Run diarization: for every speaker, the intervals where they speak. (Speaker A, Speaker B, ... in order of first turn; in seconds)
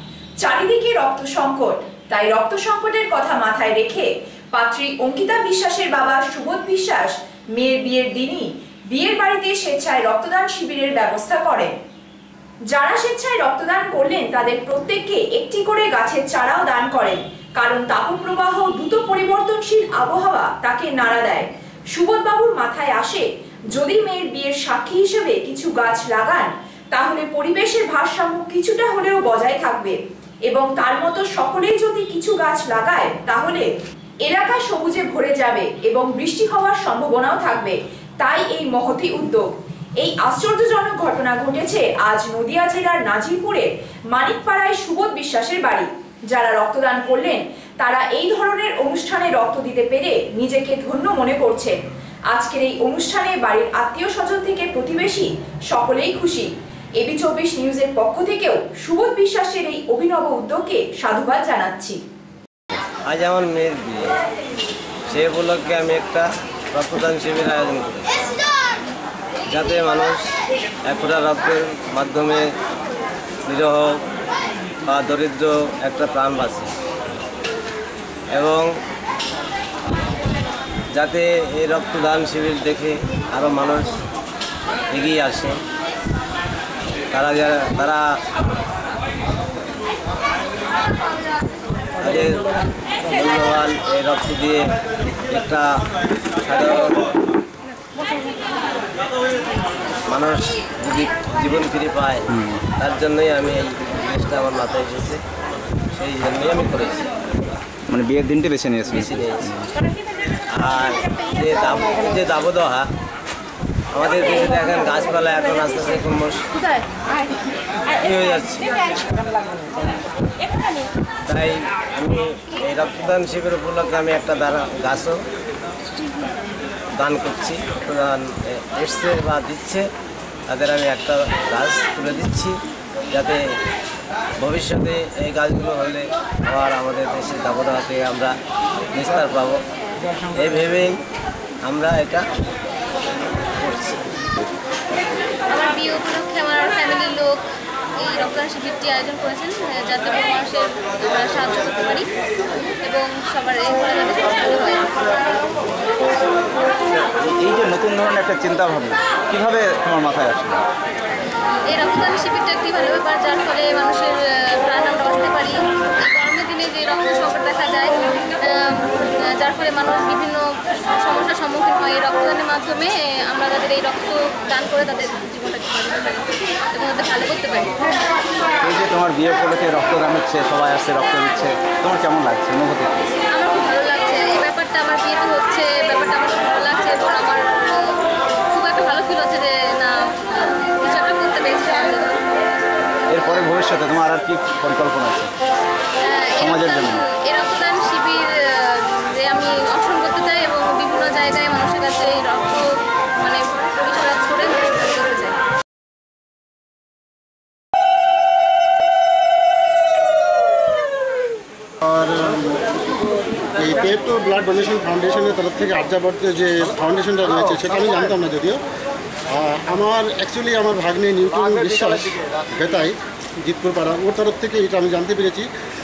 Speaker A: 0.4-11.7, 12.7-33.7, 34.2-51.8, 52.3-62.0
Speaker B: 63.0-64.2, 65.1-68.0, 69.5-70.2, 70.8-72.5, 73.4-74.0, 74.8-76.7, 78.3-78.7, 80.9-83.9, 84.9-85.6, 87.1-88.1, 92.0-92.5, 93.1-94.7, 95.3-95.7, 96.4-97.0, 100.1-102.2, 102.7-105.2, 105.9-107.1, 109.0-109.4, 110.5-112.9, 113.9-116.5, 118.0-118.7, 121.3-125.2, 126.9-129.9, 130.5-132.6, 133.1-133.4, 134.4-138.3, 138.9-139.6, 140.3-141.0, 141.6-142.3, 143.6-144.0
Speaker C: 102.3-102.6, 107.9-109.7, 157.2-160.6, 178.6-182.9, 193.1-195.3, 196.4-197.0
Speaker D: 145.5-147.4, 148.0-152.1, 152.8-155.0, 161.7-178.0, 183.3-188.0, 188.5-192.2, 196.0-202.6, 203.2-205.4
Speaker E: 211.8-218.6, 219.3-225.5